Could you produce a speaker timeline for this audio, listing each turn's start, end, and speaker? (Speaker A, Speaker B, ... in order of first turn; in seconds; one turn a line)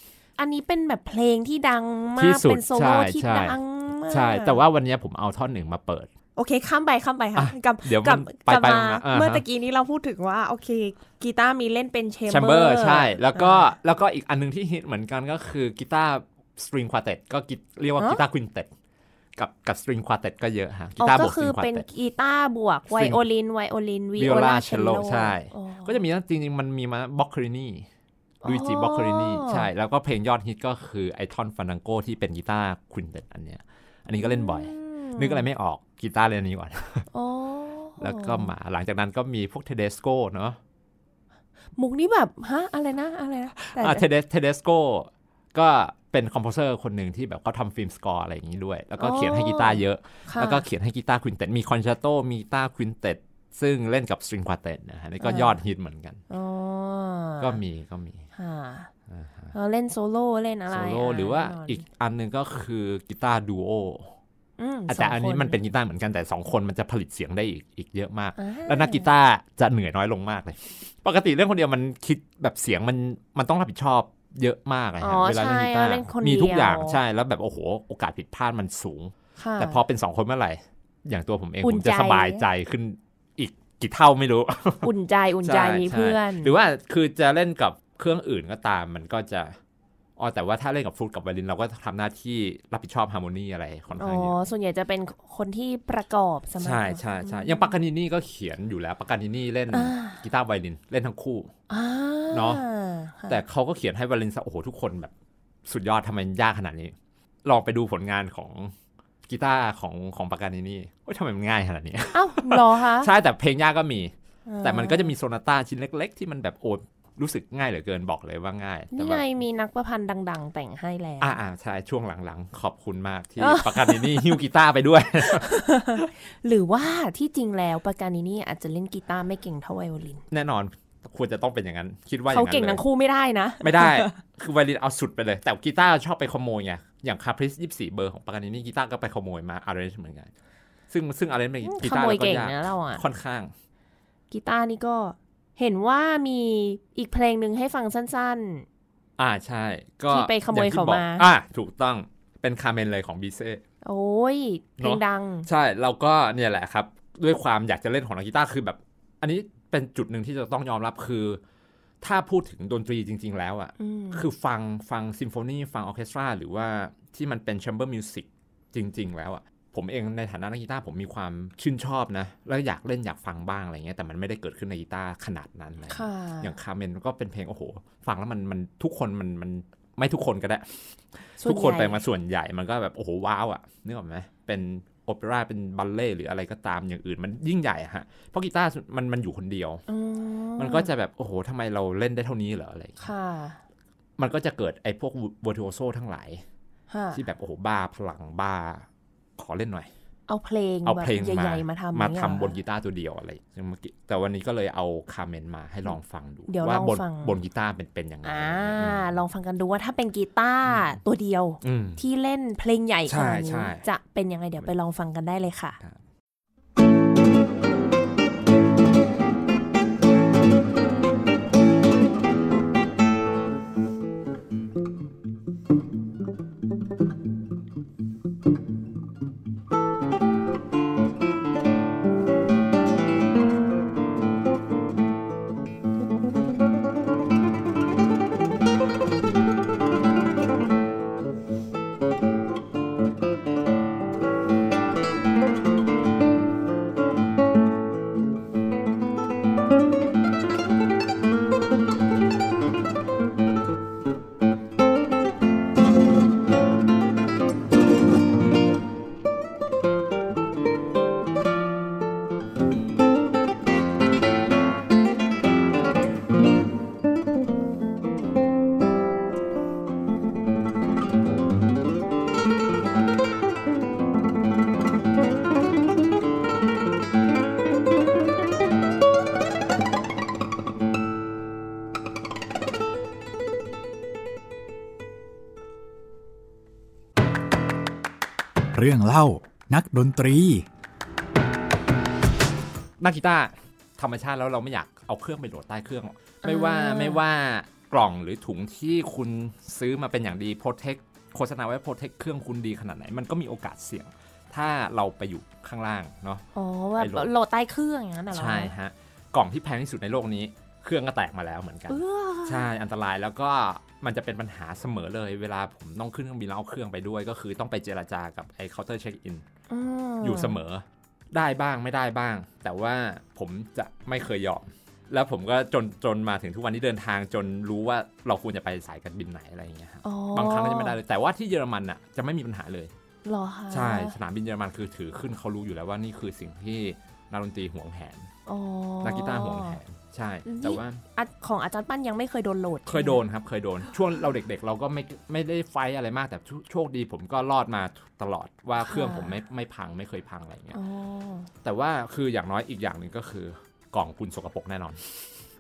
Speaker A: 0.4-4.6
Speaker B: 2.2-6.1
Speaker A: 6.3-13.7
Speaker B: 7.3-9.4
Speaker B: 12.3-18.7
Speaker B: 19.4-21.9
Speaker A: 21.0-26.0
Speaker B: 22.9-23.2
Speaker B: 24.2-27.9
Speaker A: 28.4-29.7
Speaker B: 28.4-37.1
Speaker A: 34.2-35.5
Speaker A: 37.1-38.5
Speaker B: 38.0-40.6
Speaker A: 41.8-44.0
Speaker B: 43.5-56.2
Speaker A: 49.0-50.6
Speaker A: 55.2-55.6
Speaker A: 56.3-57.6
Speaker B: 57.4-58.3
Speaker A: 58.3-58.9
Speaker B: 59.1-59.5
Speaker A: 59.5-61.8
Speaker B: 60.7-64.1
Speaker A: 64.6-65.6
Speaker B: 64.9-84.9
Speaker A: 68.4-69.1
Speaker A: 75.0-77.0
Speaker A: 79.4-79.8
Speaker A: 81.6-82.4
Speaker A: 84.8-86.5
Speaker B: 85.4-89.6
Speaker B: 90.2-94.4
Speaker A: 94.0-97.8
Speaker B: 96.6-101.5
Speaker A: 99.7-100.2
Speaker A: 101.7-103.4
Speaker B: 102.3-102.6
Speaker B: 103.3-105.1
Speaker B: 105.7-108.7
Speaker B: 109.3-119.2
Speaker A: 112.1-113.1
Speaker A: 114.5-115.1
Speaker A: 118.9-121.3
Speaker B: 121.2-126.0
Speaker A: 123.4-124.4
Speaker A: 125.2-130.2
Speaker B: 130.3-132.8
Speaker A: 132.3-134.2
Speaker B: 133.6-140.3
Speaker B: 140.9-143.5
Speaker A: 141.6-143.0
Speaker A: 144.3-148.7
Speaker B: 149.2-153.6
Speaker A: 150.1-151.3
Speaker A: 153.8-155.5
Speaker B: 154.8-161.4
Speaker B: 162.0-189.8
Speaker A: 163.8-164.2
Speaker A: 175.9-176.5
Speaker A: 181.4-182.0
Speaker A: 189.9-190.9
Speaker B: 190.6-193.1
Speaker A: 193.0-193.6
Speaker B: 194.2-196.4
Speaker A: 196.9-197.2
Speaker B: 197.1-199.9
Speaker A: 200.3-202.6
Speaker B: 200.8-209.2
Speaker A: 206.5-207.4
Speaker A: 208.2-215.8
Speaker B: 210.7-211.0
Speaker B: 211.6-212.0
Speaker B: 213.1-213.8
Speaker C: 288.7-290.6
Speaker B: 293.0-306.4
Speaker A: 296.4-297.2
Speaker A: 306.5-308.7
Speaker B: 307.0-307.3
Speaker B: 308.3-319.4
Speaker A: 311.9-312.7
Speaker A: 319.7-320.6
Speaker B: 320.2-332.9
Speaker A: 330.0-331.0
Speaker A: 333.2-334.1
Speaker B: 333.7-338.3
Speaker A: 338.4-339.8
Speaker B: 339.0-341.0
Speaker A: 340.4-343.2
Speaker B: 342.9-350.8
Speaker A: 348.8-349.4
Speaker A: 350.7-351.5
Speaker B: 351.6-355.2